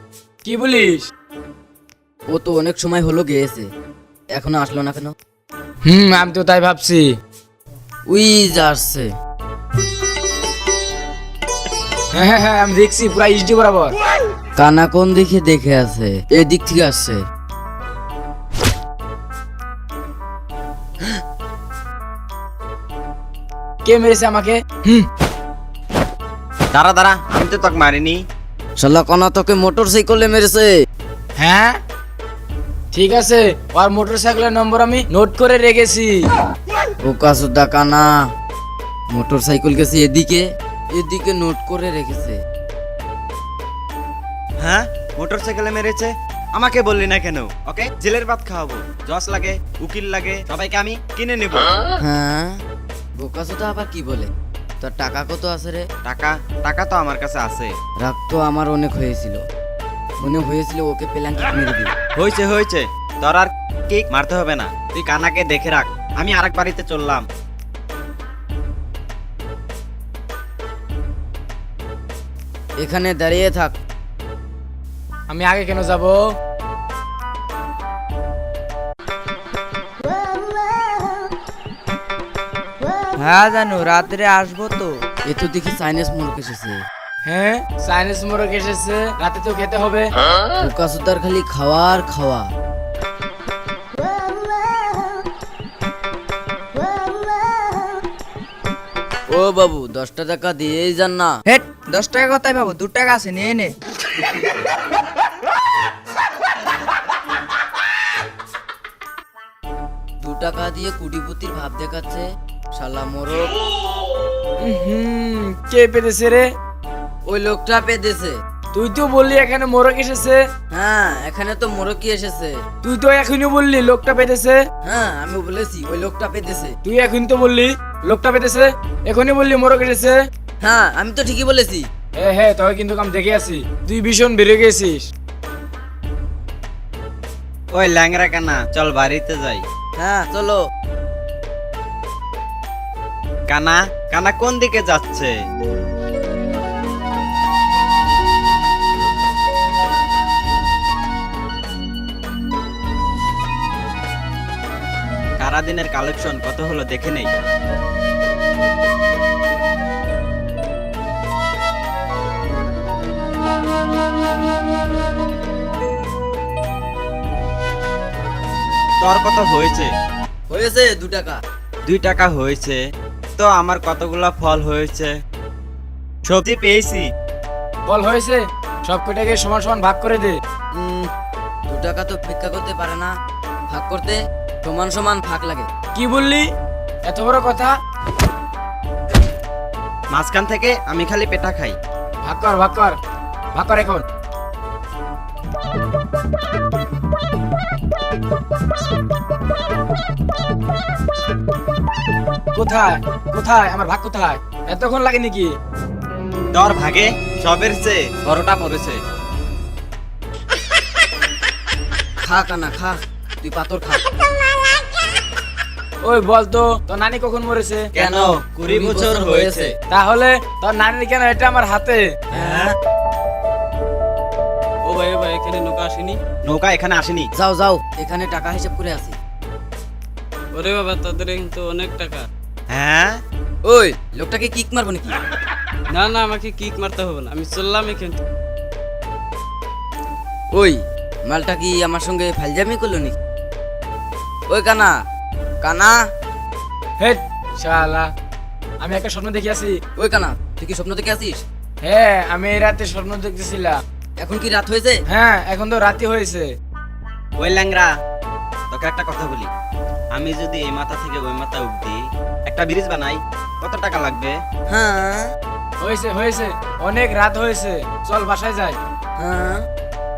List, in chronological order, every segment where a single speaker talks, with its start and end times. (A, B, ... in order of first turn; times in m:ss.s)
0:00.4-0:01.1 A
0:02.3-0:03.7 B
0:04.3-0:05.1 B
0:05.8-0:07.1 A
0:08.1-0:09.1 B
0:12.1-0:13.9 A
0:14.6-0:17.2 B
0:23.8-0:25.1 A
0:26.7-0:28.2 C
0:28.8-0:30.7 B
0:31.4-0:31.8 A
0:32.9-0:36.1 A
0:37.0-0:38.2 B
0:39.1-0:42.4 B
0:44.6-0:51.7 C
0:52.0-0:52.6 B
0:53.2-0:54.3 B
0:54.8-0:55.8 B
0:56.0-0:57.7 C
0:58.0-0:59.4 B
1:00.2-1:01.9 B
1:02.2-1:07.2 C
1:12.8-1:13.8 B
1:15.3-1:16.2 A
1:23.2-1:24.9 D
1:25.3-1:26.8 B
1:27.2-1:30.1 A
1:30.6-1:32.5 B
1:39.3-1:41.4 B
1:41.5-1:43.7 D
1:50.2-1:53.5 B
1:54.6-1:56.5 A
1:57.3-1:58.4 B
1:58.7-2:00.4 A
2:00.7-2:02.6 B
2:02.8-2:04.6 A
2:04.8-2:06.8 B
2:06.8-2:10.2 A
2:10.6-2:11.9 B
2:12.2-2:15.1 A
2:17.7-2:19.6 C
2:20.0-2:20.6 B
2:23.5-2:25.3 C
2:35.4-2:37.3 C
2:49.0-2:49.9 C
2:50.5-2:51.4 B
2:51.9-2:52.8 C
2:53.4-2:55.1 C
2:56.3-2:57.1 C
2:57.9-3:00.4 A
3:00.7-3:01.1 B
3:01.7-3:03.1 B
3:03.7-3:05.7 B
3:05.9-3:06.5 A
3:07.0-3:07.7 A
3:10.1-3:11.8 C
3:12.2-3:13.0 A
3:13.5-3:14.0 A
3:22.5-3:25.5 A
3:26.5-3:29.0 C
3:32.2-3:34.0 B
3:36.0-3:37.9 A
3:37.9-3:39.7 C
3:38.0-3:39.7 B
3:39.9-3:42.2 A
3:42.3-3:42.7 C
3:42.4-3:42.7 B
3:44.8-3:46.2 E
3:46.4-3:47.3 C
3:47.4-3:49.2 B
3:50.5-3:52.3 E
3:52.7-3:53.2 C
3:53.6-3:55.2 B
3:55.9-3:58.2 E
4:00.5-4:03.2 B
4:04.5-4:05.0 B
4:05.6-4:06.1 B
4:07.0-4:08.1 A
4:08.8-4:09.8 A
4:10.0-4:11.4 B
4:11.8-4:13.8 A
4:14.2-4:15.0 B
4:15.1-4:16.5 A
4:17.4-4:17.9 C
4:18.7-4:19.5 C
4:20.1-4:24.4 C
4:24.7-4:25.3 B
4:25.8-4:28.8 A
4:29.2-4:29.6 B